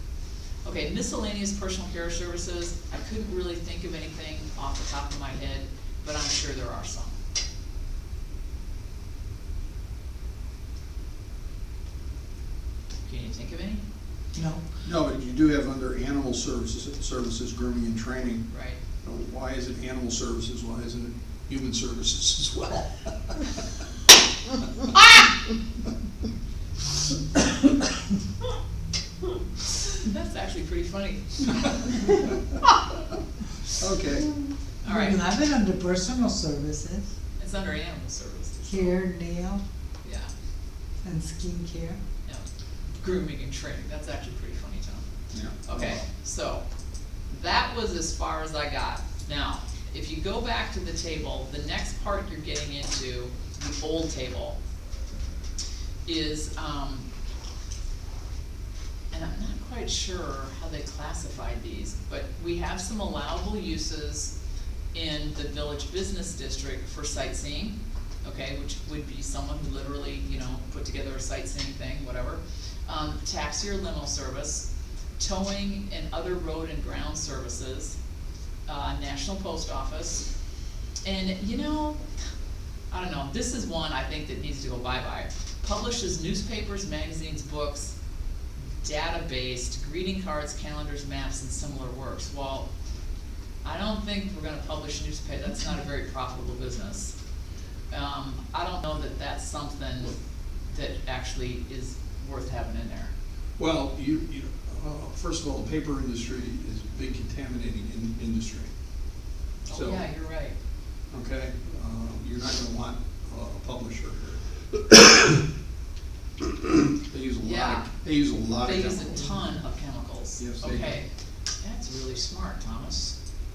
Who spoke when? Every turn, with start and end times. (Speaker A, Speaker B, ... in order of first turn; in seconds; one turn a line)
Speaker A: 0.7-7.2
Speaker A: 13.1-13.8
Speaker B: 14.3-14.6
Speaker C: 14.8-18.4
Speaker A: 18.5-18.8
Speaker C: 19.0-23.7
Speaker A: 29.8-32.2
Speaker C: 33.7-34.4
Speaker A: 34.8-35.2
Speaker B: 34.8-37.1
Speaker A: 37.4-39.0
Speaker B: 38.7-39.6
Speaker A: 40.0-40.3
Speaker B: 41.0-42.0
Speaker A: 43.0-45.1
Speaker C: 45.3-46.0
Speaker A: 45.6-46.6
Speaker A: 47.3-54.6
Speaker A: 56.1-57.1
Speaker A: 59.1-64.3
Speaker A: 64.9-74.7
Speaker A: 75.2-78.0
Speaker A: 78.7-80.3
Speaker A: 81.0-82.0
Speaker A: 82.9-88.0
Speaker A: 88.8-92.7
Speaker A: 93.6-97.2
Speaker A: 97.9-103.1
Speaker C: 103.6-108.7
Speaker A: 109.7-110.6
Speaker C: 109.7-110.0
Speaker C: 111.1-115.0
Speaker C: 117.0-119.4
Speaker A: 117.4-117.9
Speaker A: 118.6-121.1
Speaker C: 120.4-121.0
Speaker A: 121.6-123.2